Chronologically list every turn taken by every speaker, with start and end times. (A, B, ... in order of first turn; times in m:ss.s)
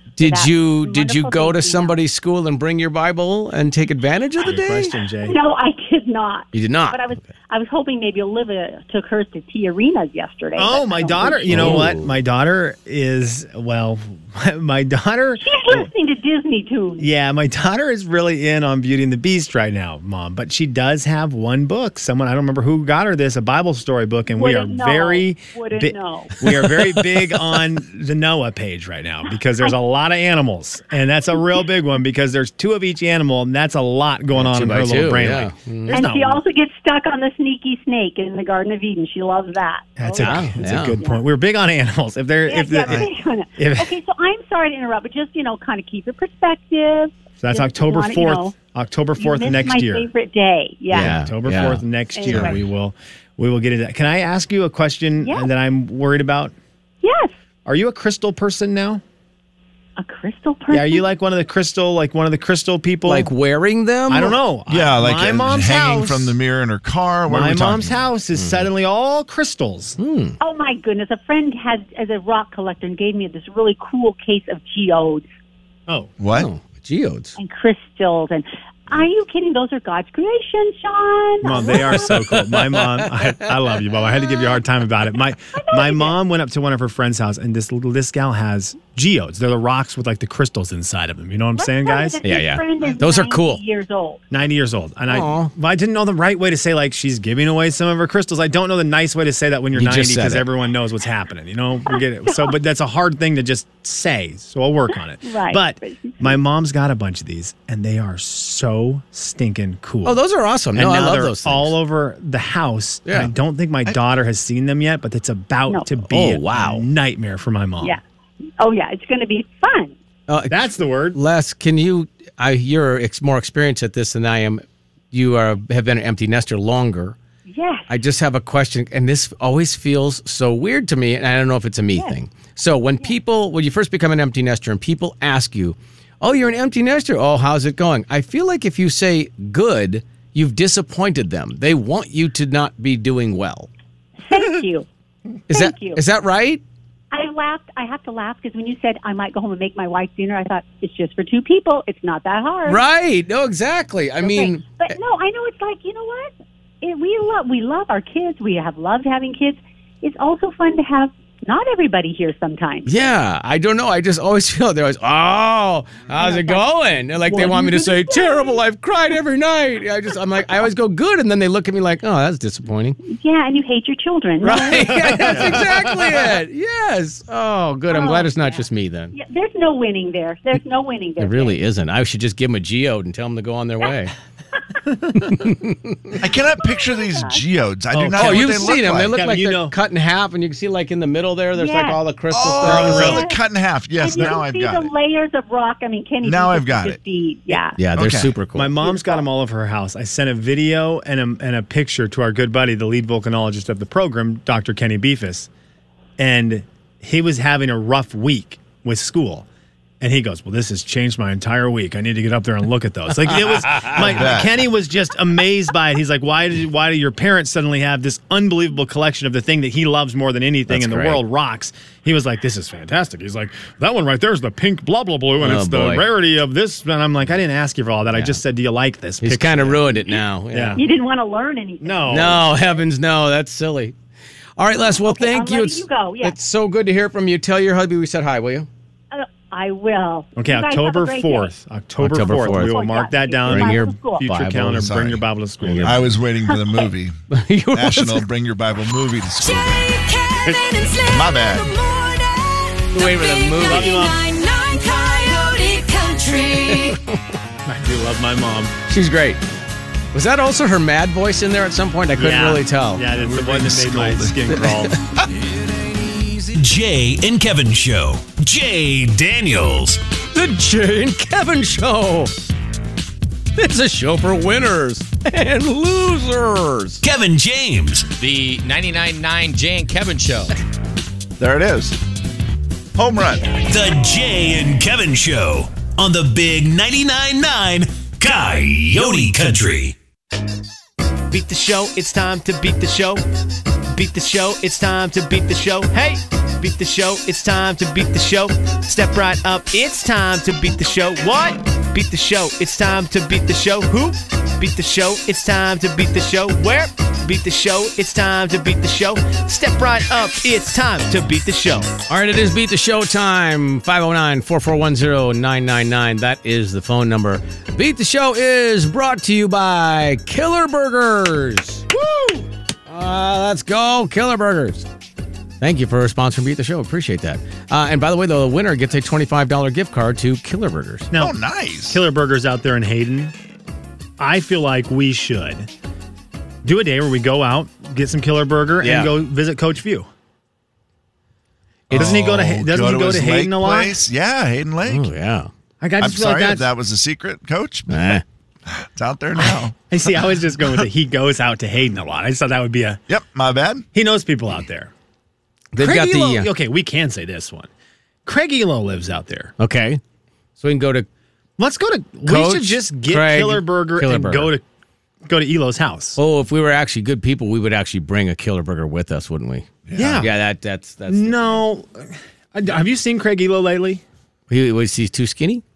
0:00.2-0:05.0 A
0:00.2-0:02.0 B
0:04.4-0:05.4 C
0:05.2-0:11.9 B
0:06.5-0:07.3 A
0:10.6-0:15.9 C
0:11.5-0:12.1 A
0:15.4-0:17.1 B
0:17.0-0:36.4 C
0:24.3-0:26.4 B
0:26.4-0:27.2 A
0:34.3-0:36.0 A
0:35.9-0:41.2 B
0:40.0-0:43.9 C
0:40.2-0:41.0 A
0:42.4-0:48.6 B
0:47.4-0:50.1 C
0:49.2-0:52.6 B
0:50.9-0:51.8 A
0:50.9-0:56.5 C
0:55.2-0:55.5 B
0:57.0-0:57.3 B
0:57.6-0:59.0 C
1:00.0-1:01.0 B
1:00.7-1:03.3 C
1:03.0-1:04.4 A
1:04.1-1:06.3 C
1:04.7-1:08.0 D
1:07.3-1:10.0 C
1:08.3-1:08.7 A
1:10.0-1:10.4 A
1:10.4-1:15.2 B
1:16.2-1:16.5 D
1:16.3-1:17.4 A
1:17.4-1:22.2 B
1:21.4-1:32.2 C
1:21.7-1:23.4 A
1:25.5-1:26.2 B
1:31.5-1:34.2 B
1:32.2-1:33.6 A
1:34.3-1:50.2 C
1:35.1-1:35.5 A
1:39.7-1:40.4 A
1:41.9-1:42.6 B
1:45.2-1:46.4 B
1:50.0-1:51.7 A
1:50.7-1:58.0 C
1:56.1-1:56.8 A
1:58.6-1:59.9 B
2:00.3-2:07.2 A
2:00.5-2:01.2 C
2:07.5-2:07.9 B
2:07.9-2:23.7 A
2:24.2-2:24.9 B
2:25.5-2:26.6 A
2:25.5-2:26.0 B
2:27.1-2:32.8 B
2:32.6-2:34.9 A
2:34.2-2:42.9 B
2:42.8-2:53.0 A
2:46.1-2:46.7 B
2:47.2-2:48.6 B
2:53.0-2:55.5 B
2:54.4-2:59.1 A
2:54.9-2:56.2 C
2:57.9-3:01.6 B
3:01.2-3:04.1 A
3:05.1-3:06.2 A
3:06.2-3:09.2 D
3:06.6-3:07.4 B
3:07.9-3:09.7 C
3:08.2-3:13.2 A
3:11.6-3:12.0 B
3:12.3-3:14.9 D
3:12.6-3:13.4 B
3:12.6-3:13.0 C
3:14.0-3:17.8 B
3:16.2-3:17.0 D
3:17.8-3:18.7 A
3:17.9-3:18.3 D
3:18.5-3:25.5 C
3:18.8-3:19.2 B
3:26.2-3:29.4 C
3:30.0-3:50.0 C
3:33.6-3:34.0 A
3:33.9-3:34.6 D
3:40.7-3:41.2 A
3:45.4-3:46.0 A
3:48.1-3:48.4 A
3:49.2-3:50.8 A
3:50.5-3:50.8 C
3:50.7-3:52.4 B
3:51.8-3:52.4 C
3:52.1-3:53.9 A
3:54.6-3:58.7 A
3:54.9-3:56.4 B
3:59.1-4:01.5 B
4:00.4-4:06.1 C
4:02.0-4:02.8 A
4:02.2-4:04.3 B
4:03.5-4:04.8 A
4:04.7-4:05.2 D
4:05.6-4:06.0 A
4:05.8-4:07.2 D
4:06.5-4:06.8 B
4:07.3-4:08.2 A
4:07.7-4:09.9 D
4:09.4-4:17.0 E
4:11.0-4:11.7 D
4:12.9-4:14.0 A
4:13.6-4:14.2 C
4:16.6-4:17.2 A
4:17.6-4:18.7 C
4:18.9-4:19.4 A
4:20.1-4:23.0 A
4:22.2-4:25.0 C
4:23.1-4:25.3 D
4:24.5-4:25.0 A
4:26.0-4:26.4 A
4:26.5-4:30.0 F
4:30.3-4:32.3 A
4:33.6-4:37.0 A
4:37.0-4:38.1 F
4:38.2-4:40.5 G
4:41.4-4:42.0 D
4:42.9-4:43.5 D
4:43.7-4:49.9 F
4:51.3-4:53.2 C
4:53.9-5:11.9 C
5:12.1-5:21.8 A
5:21.9-5:22.4 C
5:22.9-5:24.9 A
5:25.6-5:31.1 A
5:31.1-5:31.4 C
5:31.2-5:32.0 D
5:31.9-5:33.3 C
5:34.2-5:35.7 C
5:36.6-5:40.1 C
5:38.8-5:39.1 A
5:41.9-5:45.1 D
5:41.9-5:44.0 C
5:44.9-5:45.5 A
5:45.8-5:46.7 C
5:46.0-5:50.2 D
5:47.9-5:48.2 A
5:49.4-5:53.0 C
5:53.1-5:53.8 D
5:53.9-5:54.9 C
5:55.7-5:56.5 A
5:55.8-5:57.7 C
5:58.2-5:59.5 C
5:59.6-6:00.0 A
6:00.6-6:01.1 A
6:01.6-6:04.6 C
6:02.2-6:04.5 A
6:05.2-6:06.2 C
6:06.2-6:09.7 A
6:09.8-6:10.3 D
6:09.9-6:10.3 C
6:10.2-6:11.6 A
6:11.1-6:14.0 C
6:14.5-6:15.6 A